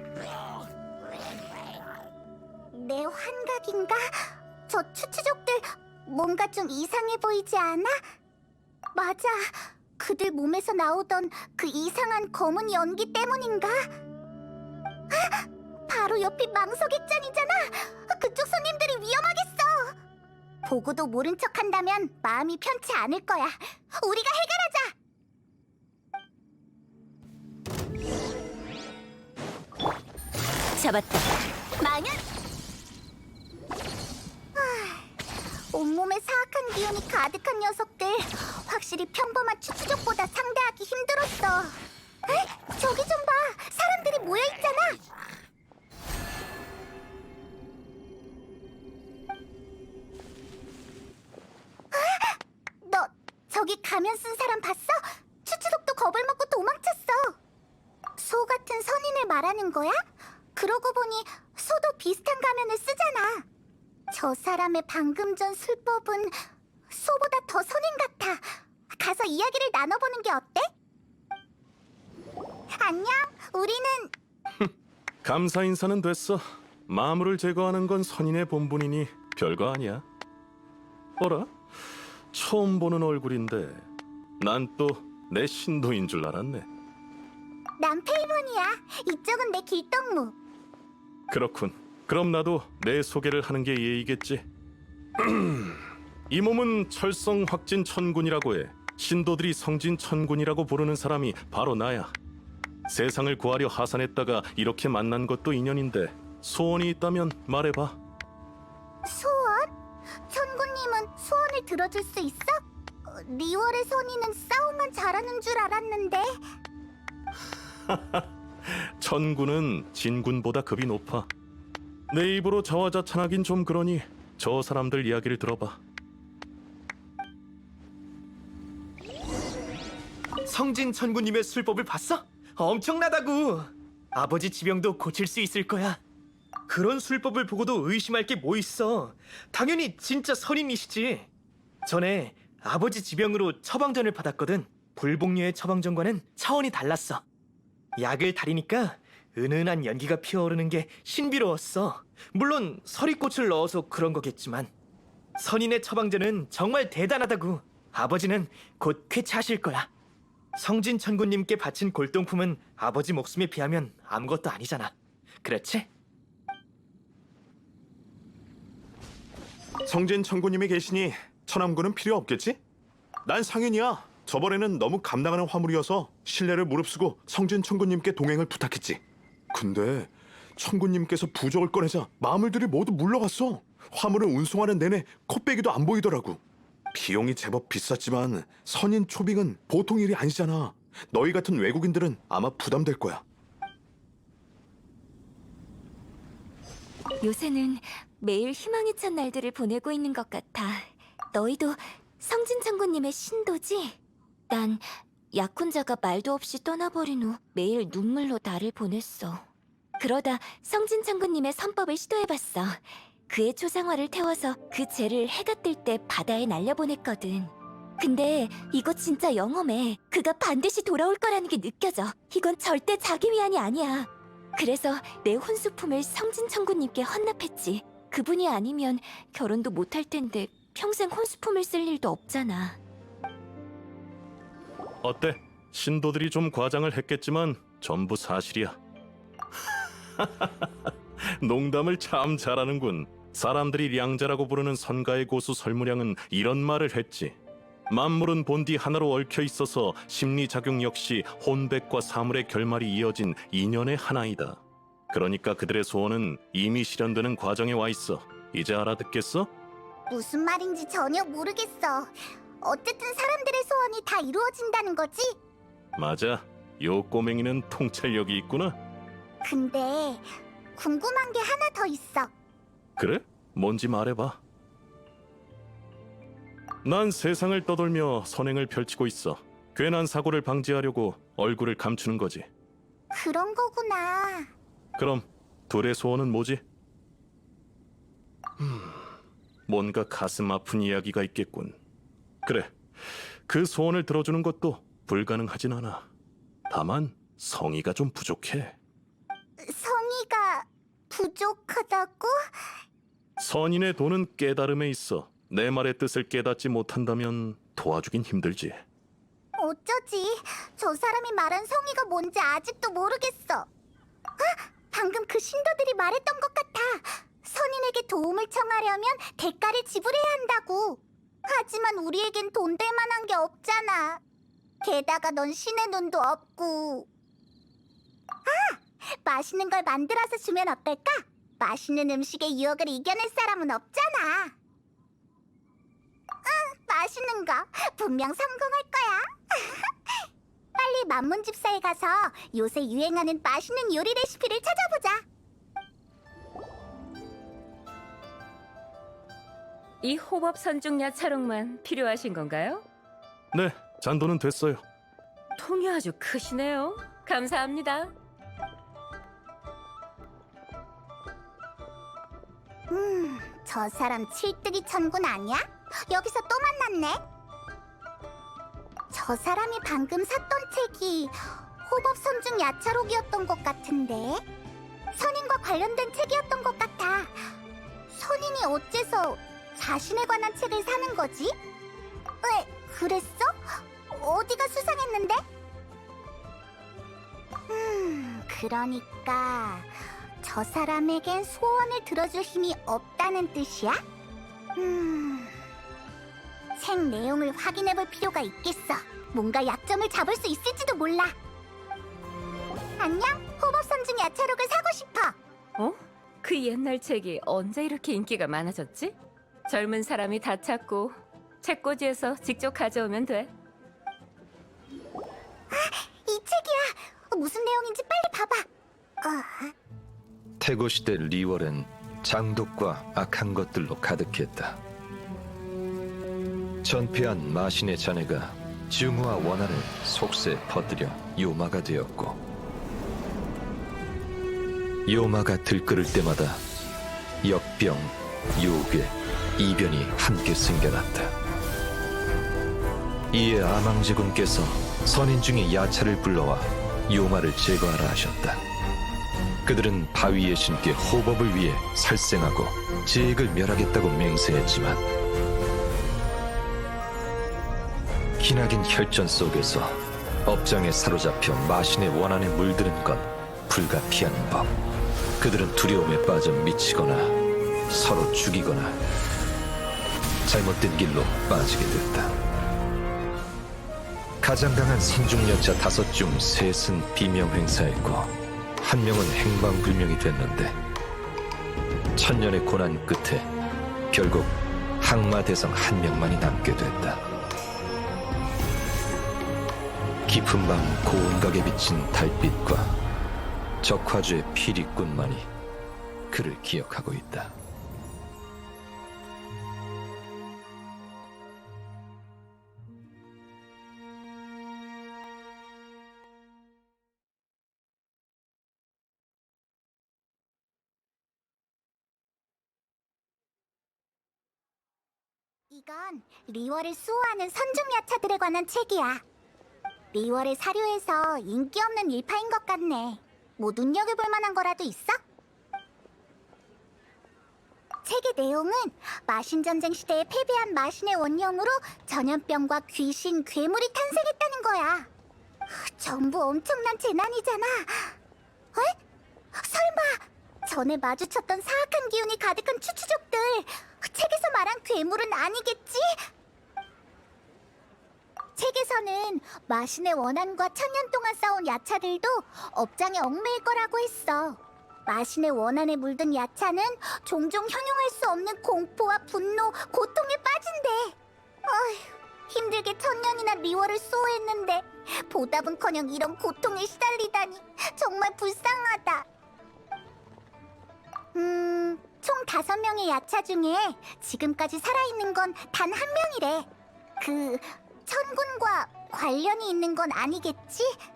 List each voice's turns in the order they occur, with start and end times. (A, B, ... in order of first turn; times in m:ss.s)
0:02.7-0:08.1 A
0:08.9-0:13.9 A
0:15.1-0:19.9 A
0:20.6-0:24.9 A
0:30.8-0:31.3 B
0:31.8-0:32.2 A
0:34.6-0:35.1 A
0:35.7-0:45.0 A
0:51.9-0:57.4 A
0:58.2-1:03.4 A
1:04.1-1:10.7 A
1:12.7-1:14.1 A
1:15.2-1:20.0 C
1:21.2-1:23.9 C
1:24.4-1:26.6 C
1:27.8-1:30.3 A
1:31.3-1:34.4 C
1:35.2-1:42.2 C
1:42.9-1:48.0 C
1:49.0-1:49.7 A
1:50.3-1:56.4 A
1:57.9-2:01.3 C
2:02.1-2:05.8 C
2:10.4-2:16.0 D
2:16.7-2:21.3 D
2:21.8-2:27.2 D
2:28.0-2:34.7 D
2:35.4-2:39.9 D
2:40.6-2:45.9 D
2:49.8-2:52.6 E
2:53.2-2:59.0 E
2:59.5-3:06.4 E
3:06.9-3:13.2 E
3:17.2-3:24.0 B
3:24.5-3:29.4 B
3:30.0-3:52.8 B
3:55.0-3:58.8 C
4:00.2-4:07.4 C
4:07.9-4:14.6 C
4:15.1-4:19.5 C
4:20.1-4:25.4 A
4:26.0-4:28.8 C
4:29.4-4:32.3 A
4:33.0-4:34.4 C
4:36.8-4:42.5 C
4:43.1-4:44.5 A
4:45.0-4:46.6 C
4:48.6-4:49.0 C
4:49.7-4:51.8 C
4:52.4-4:56.1 C
4:56.7-4:58.8 C
4:59.6-5:02.8 A
5:03.4-5:08.8 C
5:09.6-5:13.7 A
5:14.4-5:24.2 A
5:24.8-5:27.1 A
5:28.4-5:34.5 A
5:36.4-5:45.2 A
5:50.0-5:52.8 F
5:53.5-5:54.8 C
5:55.6-5:58.1 F
6:02.9-6:07.2 A
6:09.1-6:14.4 A
6:15.1-6:17.5 A
6:18.1-6:21.6 A
6:22.4-6:25.4 A
6:27.7-6:34.0 A
6:34.8-6:35.6 A
6:36.8-6:41.4 A
6:43.0-6:45.4 A
6:45.8-6:53.5 F
6:55.7-6:58.6 A
6:59.2-6:59.7 A
7:00.6-7:04.8 G
7:06.8-7:12.4 G
7:15.0-7:16.6 G
7:17.4-7:21.3 G
7:23.3-7:28.6 G
7:29.6-7:35.0 G
7:38.4-7:44.7 G
7:45.4-7:49.0 G
7:50.4-7:52.4 G
7:54.4-8:00.8 G
8:02.1-8:03.5 G
8:04.1-8:07.2 G
8:10.3-8:13.0 G
8:13.8-8:15.5 G
8:16.3-8:17.6 G
8:35.7-8:39.2 A
8:40.1-8:45.2 A
8:48.0-8:55.1 A
8:55.7-8:58.2 A
8:59.5-9:06.2 A
9:08.6-9:29.3 A
9:31.3-9:36.7 A
9:37.2-9:41.0 A